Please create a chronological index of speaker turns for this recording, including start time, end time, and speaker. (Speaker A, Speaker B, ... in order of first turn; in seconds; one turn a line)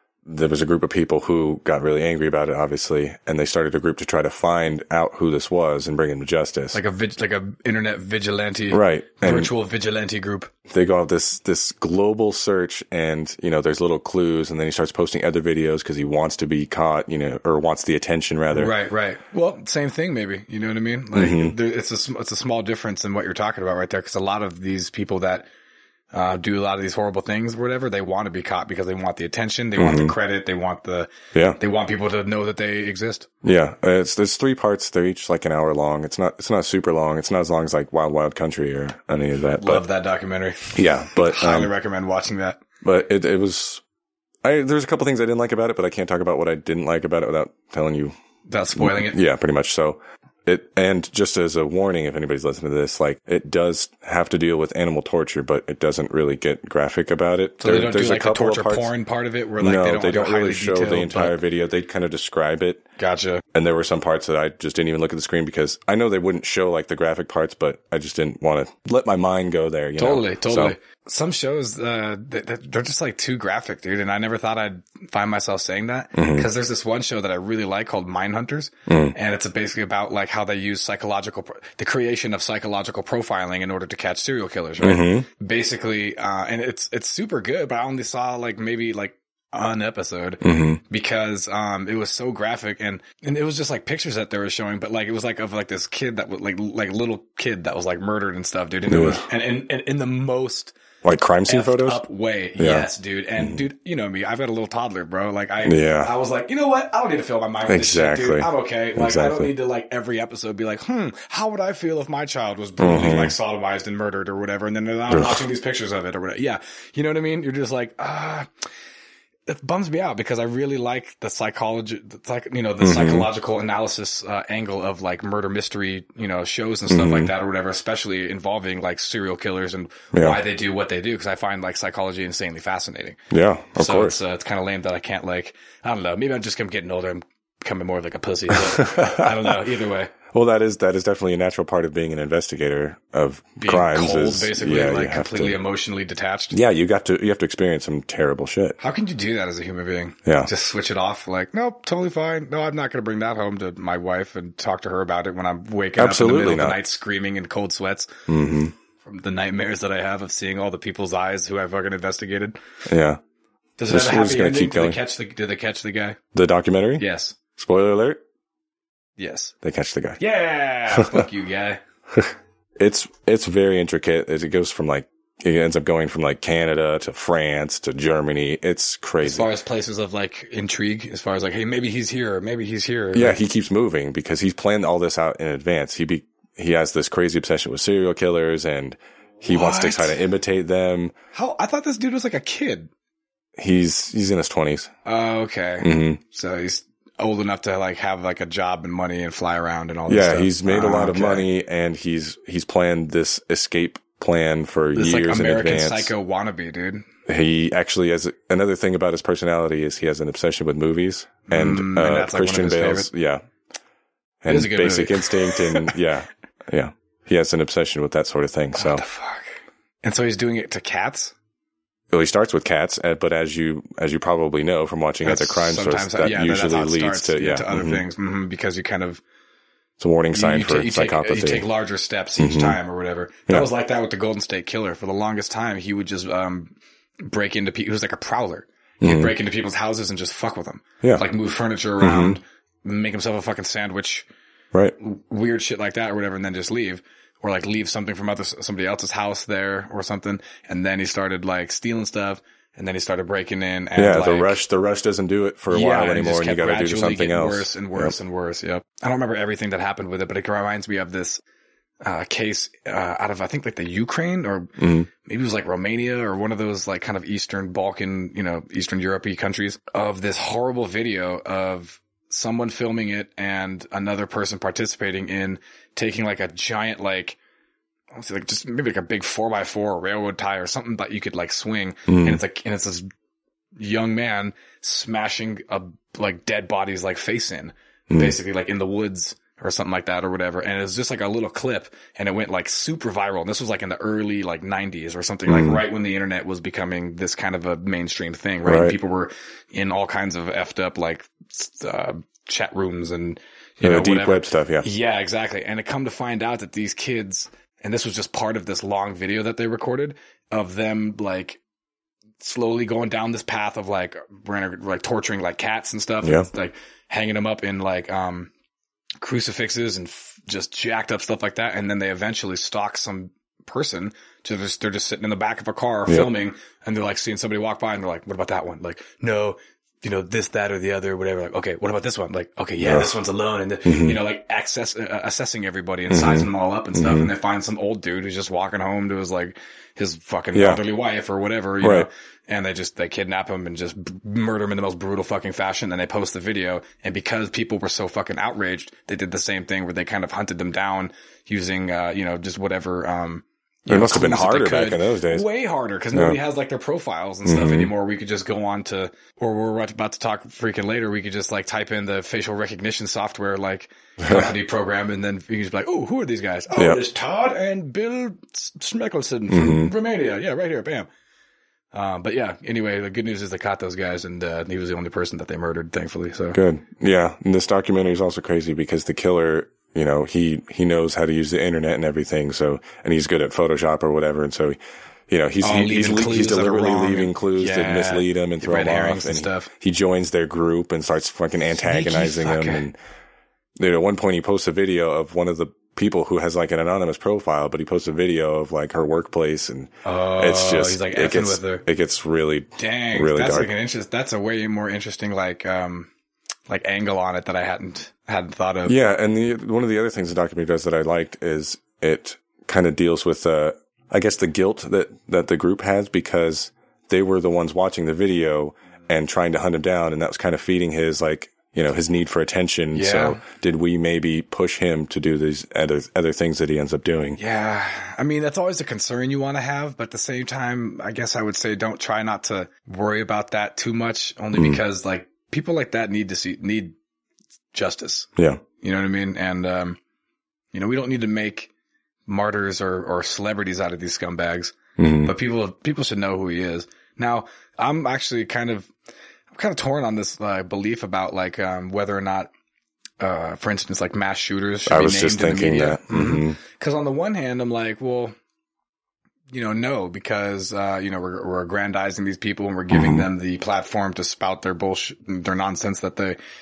Speaker A: 0.2-6.8
Speaker B: 6.7-10.5
Speaker A: 8.7-9.5
Speaker A: 10.7-18.7
Speaker B: 18.5-25.5
Speaker A: 21.1-21.5
Speaker B: 26.1-33.3
Speaker A: 29.8-30.1
Speaker A: 33.4-39.8
Speaker B: 39.6-42.6
Speaker A: 40.7-41.7
Speaker A: 42.8-43.8
Speaker A: 44.4-48.1
Speaker B: 48.5-49.2
Speaker A: 48.8-58.9
Speaker B: 57.6-61.4
Speaker A: 59.6-62.8
Speaker B: 63.0-63.4
Speaker A: 63.5-70.7
Speaker B: 70.0-100.7
Speaker A: 76.1-76.5
Speaker A: 78.9-79.1
Speaker A: 84.8-85.2
Speaker A: 90.4-90.8
Speaker A: 98.9-99.2
Speaker A: 101.0-102.0
Speaker B: 101.5-118.5
Speaker A: 102.6-102.9
Speaker A: 105.6-106.1
Speaker A: 107.7-109.5
Speaker A: 112.8-113.3
Speaker A: 115.1-115.4
Speaker B: 119.5-133.2
Speaker A: 122.8-123.3
Speaker A: 126.9-127.3
Speaker A: 130.1-130.4
Speaker A: 133.3-134.2
Speaker B: 133.7-140.1
Speaker A: 138.5-139.6
Speaker A: 140.3-145.6
Speaker B: 143.6-146.6
Speaker A: 146.5-148.8
Speaker B: 148.8-158.1
Speaker A: 156.0-156.8
Speaker A: 158.3-158.7
Speaker B: 159.0-162.6
Speaker A: 162.9-163.2
Speaker B: 163.8-166.2
Speaker A: 163.9-165.0
Speaker A: 166.3-167.0
Speaker B: 167.0-167.4
Speaker A: 167.6-168.2
Speaker B: 169.2-169.5
Speaker A: 169.6-170.2
Speaker B: 170.2-171.8
Speaker A: 170.9-171.2
Speaker A: 172.8-179.5
Speaker B: 179.2-183.4
Speaker A: 183.1-191.1
Speaker B: 189.5-190.2
Speaker B: 191.3-192.9
Speaker A: 193.6-194.9
Speaker B: 195.0-201.5
Speaker A: 195.8-196.2
Speaker A: 200.1-206.1
Speaker B: 204.9-207.0
Speaker A: 207.3-213.4
Speaker B: 211.5-213.1
Speaker A: 214.4-219.0
Speaker B: 214.5-216.0
Speaker B: 218.8-221.3
Speaker A: 222.1-228.0
Speaker B: 225.2-229.2
Speaker A: 230.0-231.7
Speaker B: 230.3-244.3
Speaker A: 232.4-232.8
Speaker A: 239.0-239.3
Speaker A: 242.0-242.4
Speaker B: 245.0-254.6
Speaker A: 253.9-258.1
Speaker B: 255.7-261.4
Speaker B: 262.0-277.4
Speaker A: 264.8-265.1
Speaker B: 278.1-283.0
Speaker A: 282.1-282.4
Speaker B: 283.8-311.6
Speaker A: 288.1-288.4
Speaker A: 295.5-295.8
Speaker A: 298.6-299.0
Speaker A: 303.8-304.9
Speaker B: 312.4-318.5
Speaker A: 316.2-316.5
Speaker B: 319.2-371.1
Speaker A: 332.8-333.1
Speaker A: 333.8-334.2
Speaker A: 336.1-337.3
Speaker A: 340.5-340.8
Speaker A: 341.8-342.1
Speaker A: 353.9-355.4
Speaker A: 356.1-356.4
Speaker A: 357.4-357.9
Speaker A: 364.2-364.5
Speaker A: 369.5-369.9
Speaker B: 371.9-376.6
Speaker A: 376.5-384.8
Speaker A: 385.3-393.0
Speaker B: 385.6-389.7
Speaker B: 391.8-392.9
Speaker A: 393.8-403.7
Speaker B: 400.0-401.8
Speaker B: 402.8-406.1
Speaker B: 406.7-409.0
Speaker A: 408.9-427.4
Speaker B: 422.9-423.4
Speaker B: 427.4-436.9
Speaker A: 434.5-434.8
Speaker B: 437.7-440.0
Speaker A: 438.4-438.6
Speaker B: 440.7-441.7
Speaker B: 442.3-448.9
Speaker A: 445.0-445.3
Speaker B: 449.5-452.5
Speaker B: 453.2-458.3
Speaker A: 454.9-456.6
Speaker B: 459.5-466.4
Speaker A: 462.9-463.3